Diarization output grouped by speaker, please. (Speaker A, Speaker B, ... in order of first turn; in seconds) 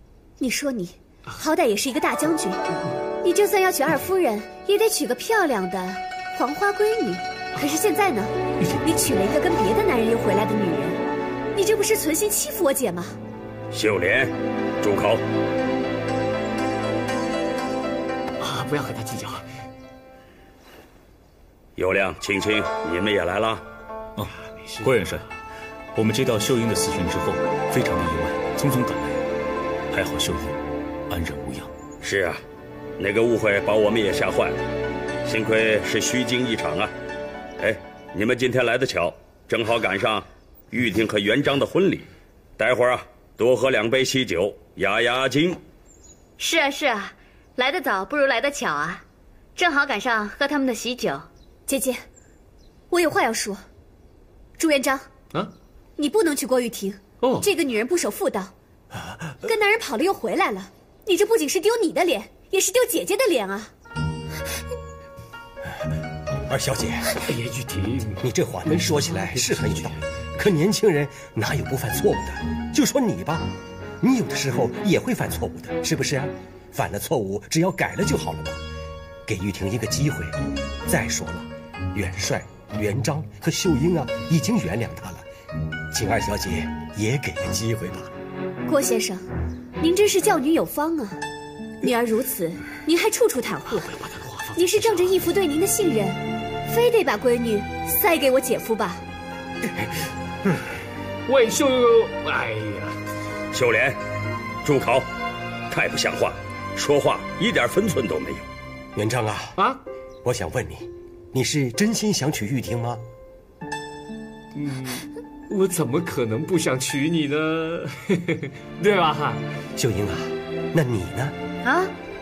Speaker A: 0.4-11.0, 11.5-13.2, 51.7-52.0, 52.9-53.6, 54.6-55.1, 56.0-58.5, 59.4-63.7, 88.7-89.3, 89.8-91.2, 91.8-94.0, 94.5-99.0
Speaker B: 13.7-15.2, 21.8-23.6, 32.0-32.4, 33.0-34.6, 35.2-36.9, 37.6-42.1, 42.6-45.6, 103.5-104.0, 104.6-105.1, 105.7-108.4
Speaker C: 18.4-19.4, 24.8-25.1, 57.2-57.5, 67.2-70.0, 94.1-95.2, 101.3-103.0, 114.5-119.4
Speaker D: 24.2-25.3, 25.9-29.2, 29.9-30.6, 31.1-31.7
Speaker E: 46.4-49.0, 49.6-51.3, 121.6-121.9
Speaker F: 66.5-67.1, 68.2-73.5, 74.0-78.6, 79.3-85.2, 85.9-88.1, 108.9-109.6, 110.2-113.0, 119.8-121.3